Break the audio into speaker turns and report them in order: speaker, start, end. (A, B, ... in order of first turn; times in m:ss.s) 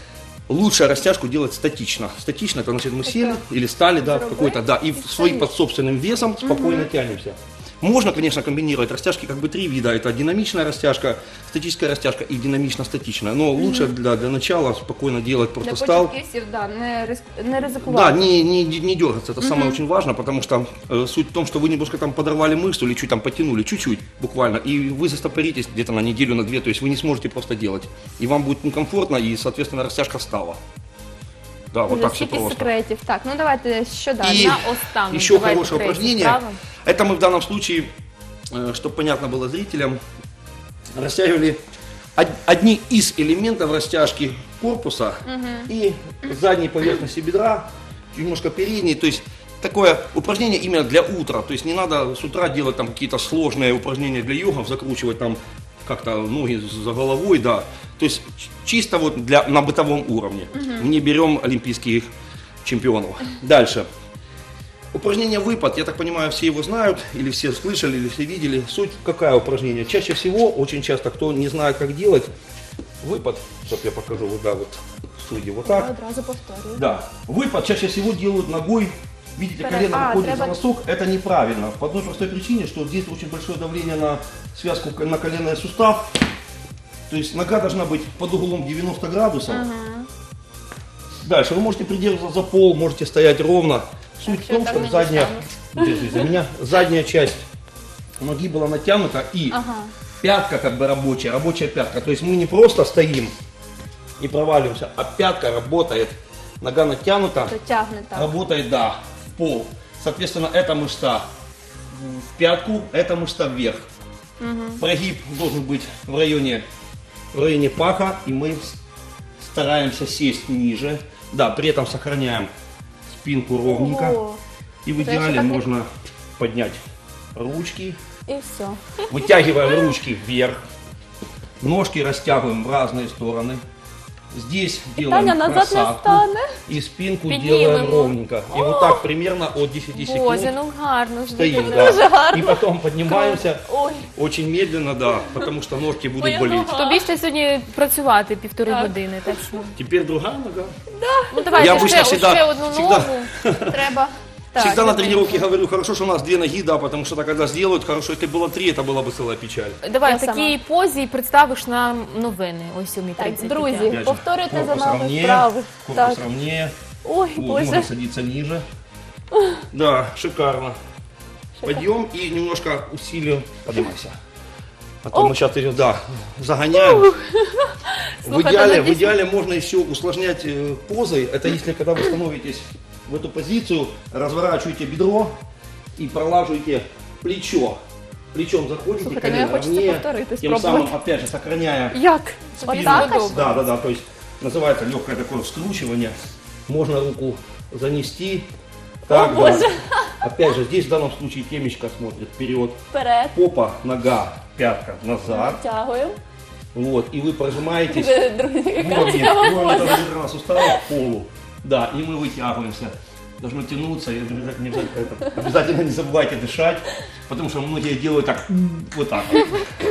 0:00.5-0:16.1 A
0:03.0-0:03.4 B
0:04.0-0:05.5 B
0:06.4-0:06.9 B
0:13.6-0:13.9 B
0:15.6-0:18.3 B
0:17.8-0:30.6 A
0:19.4-0:19.8 B
0:31.7-0:32.7 A
0:31.9-0:34.5 B
0:34.2-0:37.9 A
0:34.3-0:36.6 C
0:38.5-0:40.0 A
0:41.0-0:41.6 A
0:42.2-1:02.1 A
0:45.2-0:45.7 B
1:02.6-1:03.9 A
1:04.9-1:12.3 A
1:13.0-1:15.9 A
1:15.7-1:16.8 B
1:16.8-1:26.1 A
1:19.6-1:20.6 B
1:27.1-1:29.7 A
1:29.5-1:30.1 B
1:31.2-1:37.4 A
1:34.3-1:36.2 B
1:38.2-1:39.6 A
1:39.5-1:39.9 B
1:40.2-1:43.3 A
1:44.2-1:47.5 A
1:47.4-1:48.3 B
1:48.1-1:51.3 A
1:51.9-1:53.9 A
1:54.4-1:54.8 B
1:54.8-1:56.6 A
1:57.3-1:58.8 A
1:59.4-2:02.5 A
2:03.1-2:04.2 A
2:03.7-2:04.4 B
2:04.8-2:06.8 A
2:05.0-2:05.6 B
2:07.4-2:08.0 A
2:08.3-2:09.1 B
2:09.1-2:10.6 A
2:11.6-2:13.6 A
2:14.3-2:20.5 A
2:15.0-2:16.5 B
2:17.3-2:18.2 C
2:18.5-2:19.1 B
2:20.0-2:22.1 C
2:21.3-2:23.6 A
2:21.6-2:24.1 B
2:24.1-2:26.7 A
2:26.2-2:27.1 B
2:26.7-2:29.7 C
2:28.7-2:29.5 B
2:29.8-2:30.8 A
2:30.9-2:35.5 B
2:31.3-2:32.4 C
2:31.6-2:33.8 A
2:34.6-2:39.8 A
2:39.8-2:44.0 C
2:40.0-2:40.6 B
2:43.2-2:46.2 B
2:43.9-2:46.7 A
2:47.0-2:47.9 B
2:47.4-2:48.6 A
2:49.7-2:50.8 A
2:51.6-2:54.2 A
2:55.0-2:57.1 A
2:56.8-2:57.6 B
2:58.2-3:05.3 A
2:58.2-2:59.1 B
3:06.0-3:07.8 A
3:08.3-3:12.0 A
3:09.0-3:11.0 B
3:11.9-3:13.6 B
3:12.5-3:13.6 C
3:12.7-3:16.2 A
3:16.7-3:18.5 A
3:19.1-3:20.2 B
3:19.1-3:22.8 A
3:22.9-3:23.4 B
3:23.3-3:25.6 A
3:25.3-3:26.2 B
3:26.7-3:28.2 A
3:27.9-3:30.8 B
3:28.8-3:39.7 A